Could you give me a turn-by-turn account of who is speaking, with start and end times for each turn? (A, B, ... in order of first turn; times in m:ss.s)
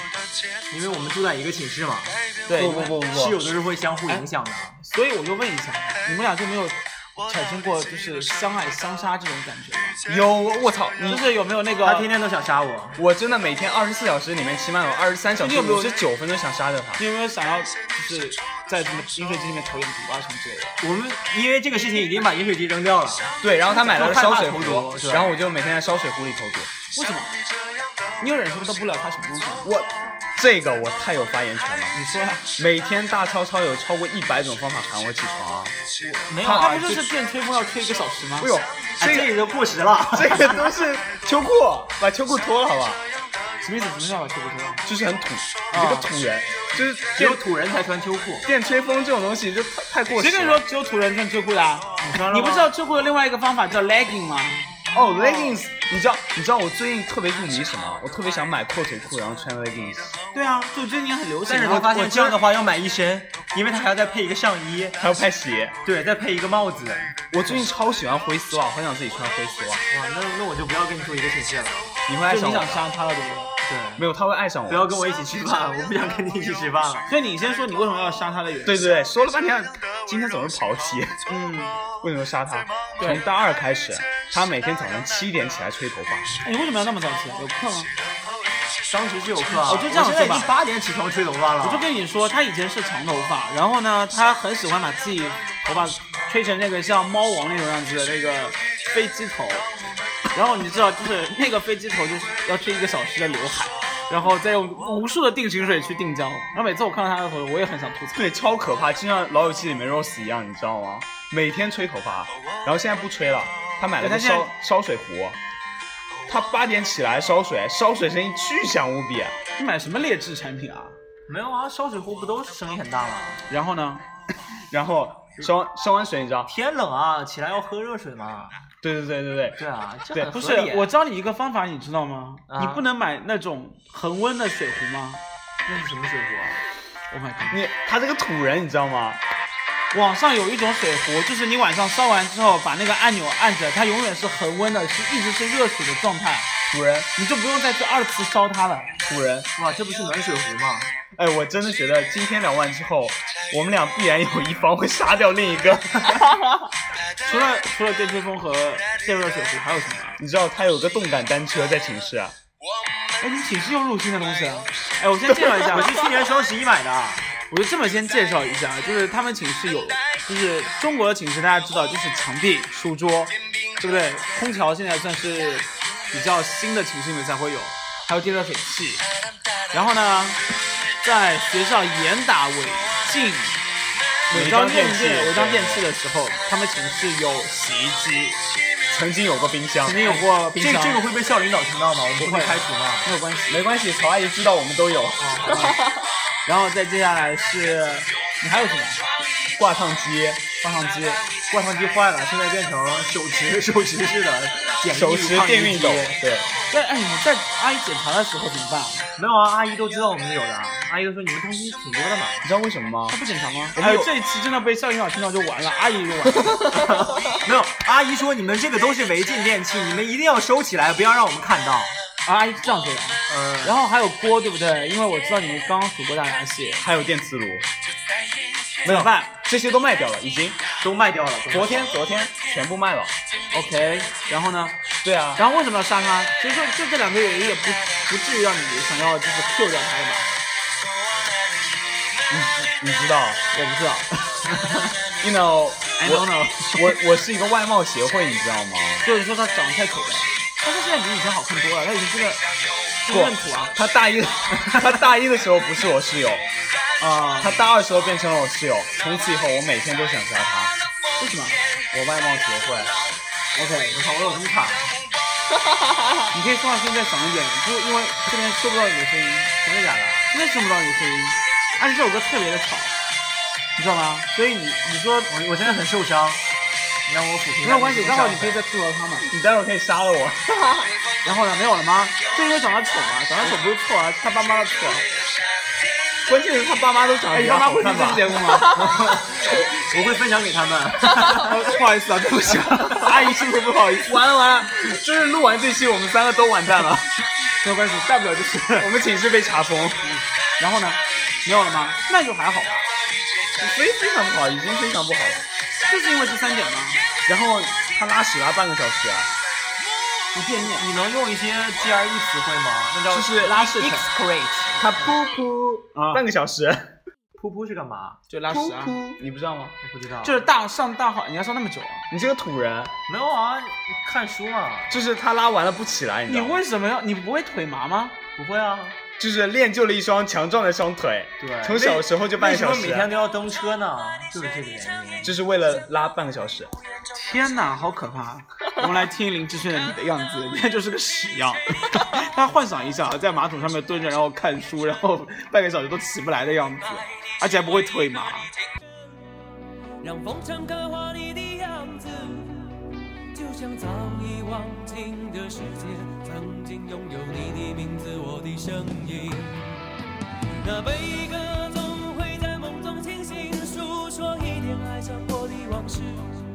0:00.7-0:04.8 A
0:02.5-0:03.0 B
0:02.6-0:03.4 C
0:04.8-0:10.0 B
0:10.1-0:11.2 C
0:11.1-0:12.1 B
0:11.8-0:13.0 A
0:13.0-0:17.0 C
0:15.4-0:16.1 B
0:17.0-0:20.8 B
0:20.8-0:25.4 A
0:23.4-0:26.7 C
0:26.9-0:27.4 B
0:28.2-0:29.7 B
0:29.6-0:32.0 C
0:31.9-0:32.6 B
0:32.6-0:35.8 C
0:36.0-0:37.1 A
0:36.4-0:38.5 B
0:38.4-0:39.3 C
0:39.0-0:40.7 A
0:40.1-0:43.0 C
0:43.6-0:44.8 B
0:44.9-0:47.4 C
0:45.7-0:46.1 B
0:47.1-0:48.5 A
0:48.4-0:50.6 C
0:50.2-0:55.6 B
0:52.0-0:52.7 A
0:54.9-1:00.2 C
1:00.3-1:02.4 B
1:01.5-1:05.0 A
1:05.0-1:05.8 C
1:05.8-1:07.2 A
1:07.3-1:09.9 C
1:09.9-1:11.9 A
1:12.1-1:12.8 C
1:12.3-1:13.5 B
1:13.6-1:14.0 A
1:14.0-1:14.9 C
1:14.7-1:17.1 A
1:17.1-1:19.0 B
1:18.6-1:26.3 C
1:21.3-1:21.8 B
1:23.0-1:23.2 B
1:26.4-1:27.9 B
1:28.8-1:31.9 A
1:29.7-1:30.5 B
1:31.6-1:39.7 B
1:40.3-1:48.3 B
1:48.2-1:55.4 C
1:54.0-1:54.5 B
1:56.3-1:59.4 C
1:59.6-2:01.0 B
2:01.3-2:03.4 A
2:03.5-2:04.0 B
2:04.7-2:06.5 C
2:06.5-2:08.6 A
2:08.8-2:09.6 C
2:09.6-2:10.9 A
2:10.3-2:15.2 B
2:12.5-2:12.8 A
2:15.7-2:16.6 A
2:17.1-2:17.6 B
2:17.5-2:19.2 C
2:19.9-2:26.5 B
2:26.7-2:27.1 A
2:27.2-2:29.0 B
2:29.1-2:30.9 A
2:31.2-2:36.3 C
2:37.2-2:40.2 B
2:40.2-2:42.4 C
2:43.2-2:46.0 B
2:45.3-2:45.6 C
2:45.7-2:47.3 A
2:47.5-2:59.1 B
2:59.7-3:00.4 B
3:01.0-3:03.6 B
3:04.3-3:08.4 B
3:04.3-3:05.9 C
3:08.9-3:10.0 C
3:09.8-3:11.1 B
3:10.0-3:13.1 A
3:12.2-3:13.6 B
3:13.5-3:15.7 C
3:15.2-3:15.8 A
3:15.5-3:15.8 B
3:16.5-3:19.1 B
3:19.6-3:20.4 C
3:20.6-3:21.3 B
3:21.5-3:26.2 A
3:24.9-3:26.6 C
3:26.7-3:29.1 B
3:29.2-3:32.5 A
3:32.4-3:33.2 C
3:33.1-3:36.7 B
3:33.8-3:34.1 C
3:36.3-3:42.0 A
3:42.2-3:46.8 B
3:43.3-3:43.8 A
3:46.8-3:47.7 C
3:48.8-3:49.4 B
3:48.8-3:50.6 C
3:50.8-3:52.0 A
3:51.5-3:53.1 C
3:53.5-3:54.8 B
3:55.0-3:55.4 C
3:55.4-4:00.3 B
4:02.3-4:03.4 C
4:03.5-4:04.5 B
4:05.2-4:09.1 C
4:06.0-4:07.0 B
4:09.0-4:12.5 B
4:13.0-4:13.8 B
4:13.1-4:16.5 C
4:17.0-4:17.6 B
4:17.4-4:20.8 C
4:21.2-4:21.6 B
4:21.9-4:23.0 C
4:23.6-4:24.0 B
4:23.9-4:25.0 A
4:26.3-4:29.5 B
4:29.6-4:30.3 A
4:30.3-4:33.0 B
4:33.8-4:35.8 B
4:35.3-4:36.4 A
4:37.1-4:38.6 A
4:37.6-4:39.3 B
4:39.3-4:40.7 C
4:41.2-4:45.1 B
4:46.3-4:48.6 C
4:47.3-4:48.9 B
4:48.7-4:51.8 A
4:51.2-4:54.2 B
4:54.0-4:57.1 C
4:57.6-4:58.9 B
4:58.8-5:00.1 C
5:00.6-5:02.9 B
5:03.6-5:05.5 C
5:05.8-5:07.0 B
5:07.3-5:09.3 C
5:10.3-5:10.9 B
5:10.7-5:15.1 A
5:13.1-5:13.6 C
5:13.4-5:14.1 B
5:14.8-5:17.0 C
5:15.9-5:16.2 B
5:17.4-5:18.2 A
5:18.3-5:19.0 B
5:18.5-5:19.8 C
5:19.8-5:20.4 A
5:20.2-5:22.1 B
5:22.1-5:22.9 C
5:23.1-5:25.0 A
5:24.9-5:26.6 C
5:26.3-5:28.2 B
5:28.4-5:29.0 A
5:29.2-5:33.1 C
5:31.4-5:35.3 A
5:35.2-5:36.7 C
5:37.1-5:48.5 B
5:50.0-5:52.7 D
5:53.3-5:59.9 D
6:00.6-6:06.4 D